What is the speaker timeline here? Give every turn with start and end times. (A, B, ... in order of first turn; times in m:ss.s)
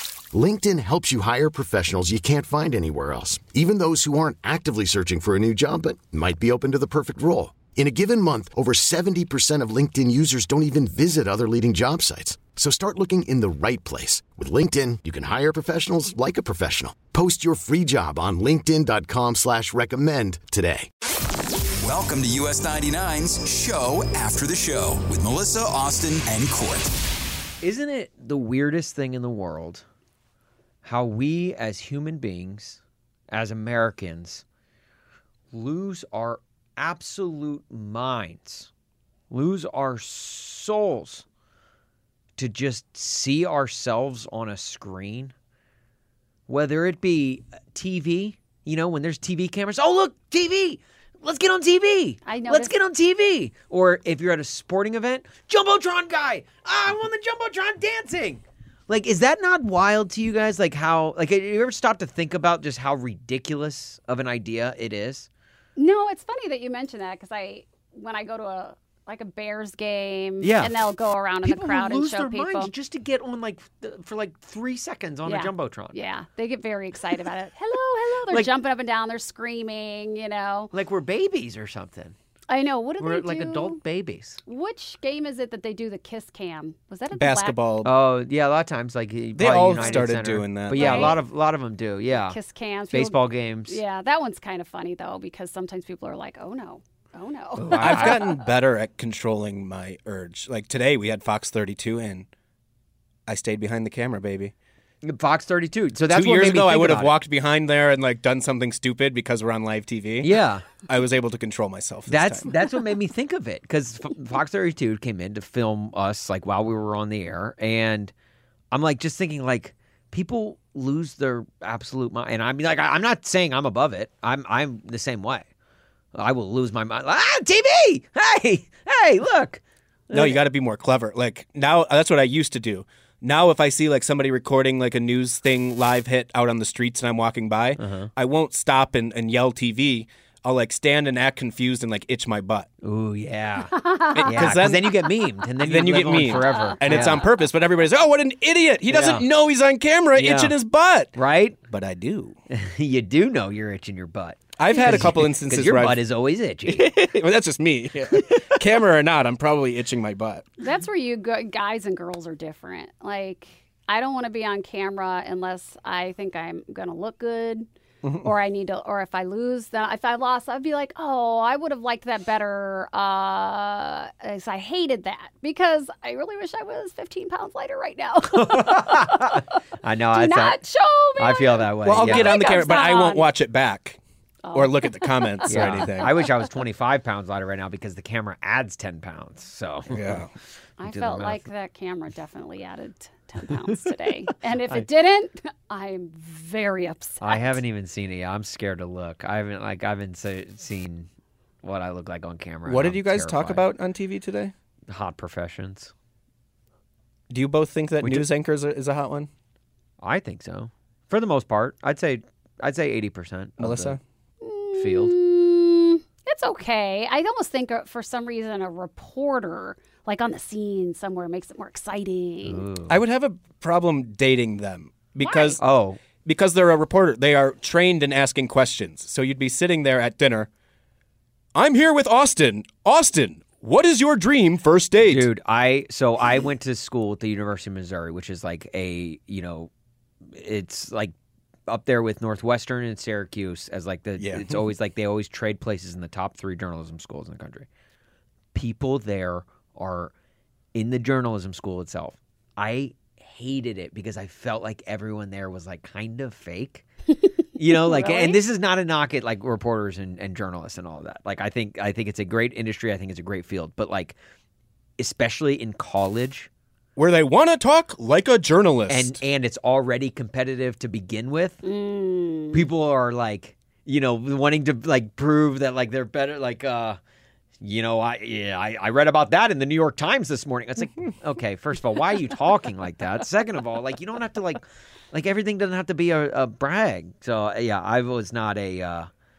0:00.3-0:20.9 A
0:21.8-0:26.9 B
0:27.6-0:29.8 C
0:30.8-0:34.4 C
0:35.5-0:38.7 C
0:39.3-0:41.2 C
0:42.4-0:45.3 C
0:46.5-1:05.3 C
0:52.2-0:52.7 D
1:05.8-1:12.7 D
1:10.4-1:10.9 C
1:11.4-1:16.0 C
1:15.2-1:20.7 D
1:20.7-1:22.2 C
1:22.5-1:23.8 D
1:23.0-1:24.4 C
1:24.5-1:27.6 D
1:27.1-1:27.9 E
1:27.8-1:32.4 C
1:29.4-1:31.2 E
1:29.8-1:30.1 D
1:30.7-1:31.2 D
1:32.1-1:38.3 D
1:32.9-1:33.8 C
1:37.6-1:38.4 C
1:37.8-1:42.3 E
1:43.3-1:44.5 E
1:45.0-1:47.2 C
1:46.1-1:52.5 E
1:50.2-1:50.7 C
1:52.1-1:58.1 C
1:58.7-2:05.5 C
2:06.2-2:10.4 C
2:10.1-2:22.7 E
2:17.8-2:18.1 C
2:22.8-2:27.2 C
2:23.8-2:24.5 D
2:24.1-2:25.0 E
2:25.6-2:31.2 E
2:26.1-2:27.1 D
2:28.9-2:29.2 C
2:30.2-2:30.5 C
2:31.2-2:31.6 C
2:31.7-2:32.4 E
2:32.5-2:36.9 C
2:34.6-2:36.0 E
2:34.7-2:35.1 D
2:36.7-2:40.5 E
2:40.6-2:47.7 D
2:48.0-2:48.3 E
2:48.2-2:59.6 D
2:58.3-3:00.6 C
3:00.1-3:03.3 D
3:01.2-3:02.3 C
3:01.8-3:04.0 E
3:04.4-3:06.4 D
3:04.5-3:06.1 E
3:05.5-3:10.3 C
3:09.9-3:10.3 E
3:10.8-3:17.6 D
3:10.8-3:11.5 C
3:17.2-3:21.1 C
3:21.6-3:23.7 C
3:22.7-3:24.5 E
3:24.9-3:25.9 C
3:27.3-3:29.3 E
3:28.0-3:28.3 C
3:30.0-3:34.0 C
3:33.6-3:34.0 E
3:34.4-3:42.6 D
3:34.8-3:35.2 C
3:42.4-3:43.0 C
3:42.9-3:45.6 E
3:45.2-3:45.6 D
3:45.6-3:46.0 C
3:46.2-3:50.5 E
3:51.6-3:55.3 E
3:55.0-3:59.7 C
4:00.3-4:01.1 C
4:01.7-4:07.7 C
4:04.2-4:04.6 E
4:08.6-4:10.1 C
4:10.7-4:16.9 C
4:17.6-4:24.2 C
4:17.8-4:18.4 D
4:25.0-4:26.5 C
4:27.0-4:29.2 E
4:28.9-4:31.6 C
4:31.6-4:32.7 D
4:32.5-4:37.0 C
4:37.6-4:49.1 C